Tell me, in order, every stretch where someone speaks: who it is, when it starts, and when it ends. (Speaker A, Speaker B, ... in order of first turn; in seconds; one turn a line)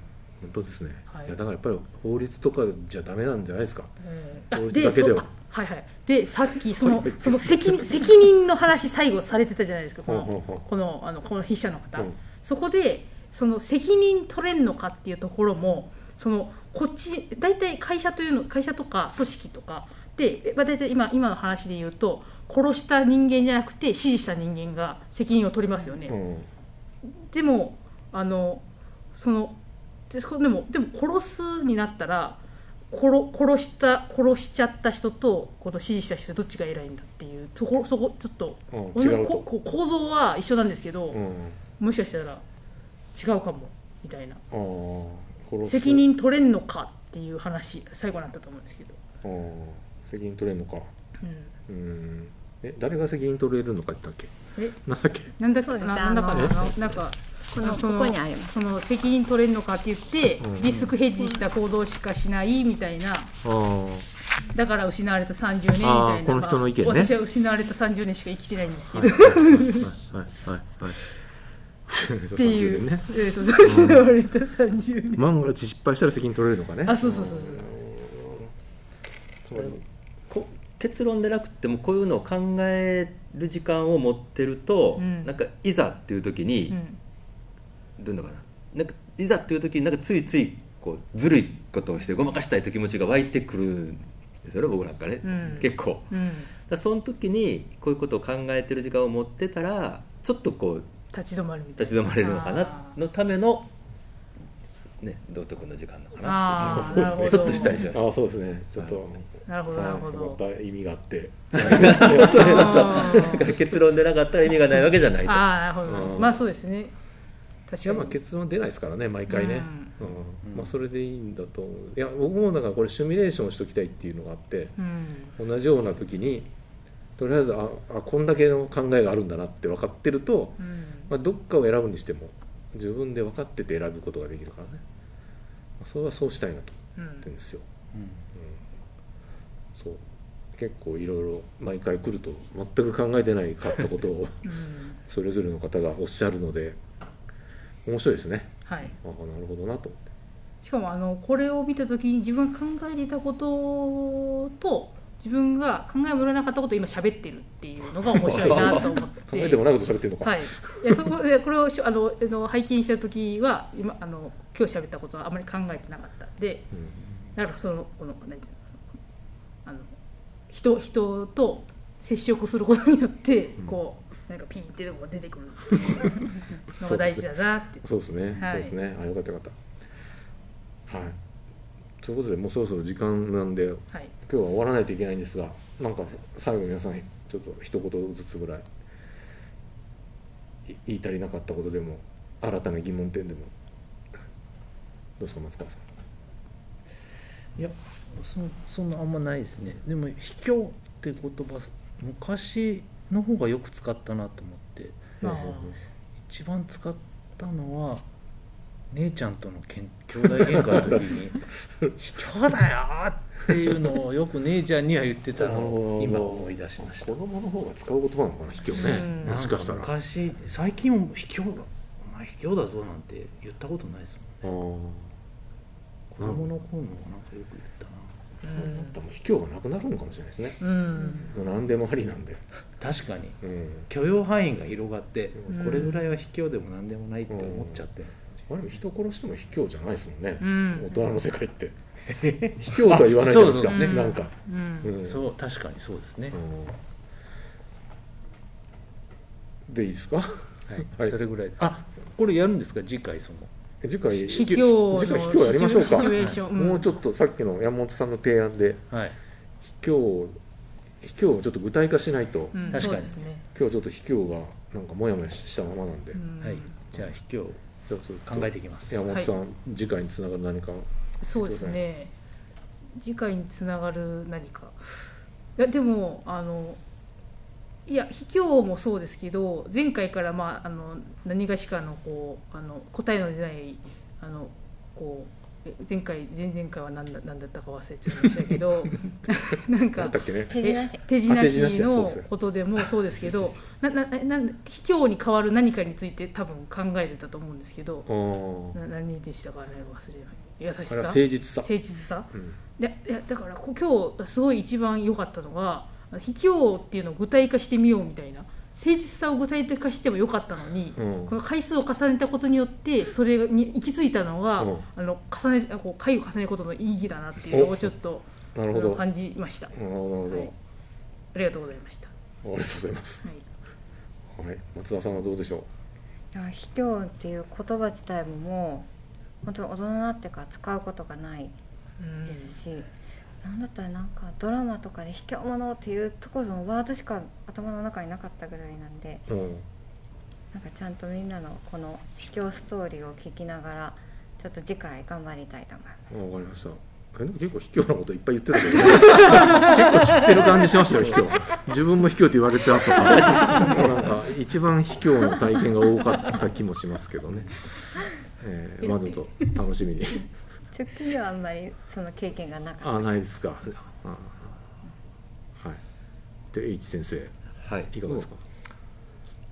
Speaker A: 0.4-3.9
Speaker B: 1.1-1.4
Speaker B: 4.0-26.2
Speaker A: 4.5-5.3
Speaker A: 6.8-8.0
Speaker A: 10.1-10.6
Speaker A: 26.1-26.5
Speaker B: 27.2-32.4
Speaker B: 32.9-41.2
Speaker A: 38.7-39.4
Speaker A: 41.1-41.6
Speaker B: 41.8-42.4
Speaker B: 43.1-44.4
Speaker A: 44.5-46.0
Speaker B: 45.6-49.0
Speaker A: 49.2-50.9
Speaker B: 51.2-51.5
Speaker A: 51.7-55.3
Speaker B: 55.4-63.3
Speaker C: 55.5-58.6
Speaker A: 60.4-60.9
Speaker A: 63.4-64.1
Speaker B: 64.5-69.9
Speaker A: 65.8-67.1
Speaker A: 69.8-70.3
Speaker D: 70.4-71.0
Speaker A: 71.9-74.1
Speaker B: 72.3-75.2
Speaker A: 75.1-78.5
Speaker B: 76.8-77.7
Speaker A: 79.4-79.8
Speaker D: 80.3-86.8
Speaker B: 85.0-85.3
Speaker B: 86.7-87.0
Speaker D: 88.0-96.1
Speaker B: 95.2-96.5
Speaker D: 96.7-100.9
Speaker B: 101.1-102.9
Speaker D: 101.8-103.7
Speaker D: 105.0-108.0
Speaker B: 106.2-108.0
Speaker A: 106.5-113.3
Speaker B: 109.5-110.4
Speaker D: 111.5-115.5
Speaker B: 111.7-113.5
Speaker B: 115.2-116.9
Speaker A: 115.8-116.4
Speaker B: 117.7-118.1
Speaker A: 117.8-124.8
Speaker B: 119.3-119.9
Speaker E: 120.4-120.7
Speaker B: 124.8-125.3
Speaker A: 125.4-126.5
Speaker A: 127.2-134.8
Speaker B: 130.6-131.1
Speaker A: 135.8-137.7
Speaker B: 137.0-137.3
Speaker E: 137.9-138.2
Speaker A: 138.3-138.6
Speaker A: 139.7-140.0
Speaker A: 140.5-146.8
Speaker B: 144.4-145.0
Speaker A: 147.8-150.0
Speaker B: 148.7-148.9
Speaker B: 150.6-159.6
Speaker A: 158.0-161.1
Speaker D: 158.3-158.8
Speaker B: 160.2-166.7
Speaker B: 167.3-168.6
Speaker B: 169.6-169.9
Speaker B: 170.5-177.8
Speaker A: 175.7-176.2
Speaker A: 176.8-177.3
Speaker A: 177.8-179.5
Speaker B: 178.3-178.7
Speaker A: 180.9-181.2
Speaker A: 182.0-188.7
Speaker A: 190.7-193.5
Speaker A: 195.2-195.9
Speaker E: 197.6-205.2
Speaker A: 205.2-205.8
Speaker B: 205.2-205.8
Speaker E: 206.2-208.0
Speaker E: 208.9-211.4
Speaker A: 210.2-212.0
Speaker E: 212.0-217.1
Speaker A: 213.5-213.9
Speaker A: 215.3-219.9
Speaker B: 218.7-219.4
Speaker E: 218.8-224.5
Speaker A: 224.4-225.1
Speaker E: 226.1-228.5
Speaker A: 226.2-226.4
Speaker B: 228.4-229.0
Speaker A: 228.5-232.4
Speaker B: 230.6-231.3
Speaker E: 232.8-238.3
Speaker A: 233.4-233.9
Speaker B: 235.5-236.1
Speaker A: 237.3-237.8
Speaker A: 238.4-241.7
Speaker B: 240.4-241.0
Speaker E: 242.1-244.1
Speaker A: 242.6-245.2
Speaker B: 243.7-245.0
Speaker E: 245.0-246.4
Speaker A: 246.3-246.8
Speaker A: 249.7-251.2
Speaker E: 250.7-253.5
Speaker A: 253.8-258.8
Speaker B: 254.2-256.9
Speaker E: 256.1-256.4
Speaker A: 259.6-260.4
Speaker A: 261.0-266.2
Speaker B: 262.5-263.4
Speaker E: 262.7-263.2
Speaker B: 266.1-266.8
Speaker E: 266.4-267.6
Speaker A: 267.9-271.8
Speaker E: 268.3-269.0
Speaker B: 271.2-272.1
Speaker B: 272.9-276.8
Speaker B: 277.9-298.1
Speaker A: 289.9-290.5
Speaker C: 290.5-291.0
Speaker A: 291.2-292.3
Speaker A: 292.8-293.4
Speaker A: 298.1-298.8
Speaker B: 298.7-319.7
Speaker A: 300.9-301.7
Speaker A: 311.0-311.4
Speaker A: 314.6-314.8
Speaker A: 317.5-317.9
Speaker A: 318.5-319.0
Speaker A: 319.7-320.5
Speaker B: 321.3-322.1
Speaker A: 322.4-323.2
Speaker A: 324.3-325.7
Speaker C: 326.3-328.9
Speaker C: 329.4-331.6
Speaker B: 332.0-332.6
Speaker C: 332.2-332.9
Speaker C: 333.4-339.3
Speaker A: 339.3-339.6
Speaker C: 340.5-346.1
Speaker A: 346.1-357.7
Speaker B: 349.0-349.7
Speaker B: 353.3-353.7
Speaker A: 358.2-360.3
Speaker C: 360.7-363.2
Speaker A: 362.8-364.5
Speaker A: 366.5-367.3
Speaker D: 367.6-368.3
Speaker A: 367.9-368.4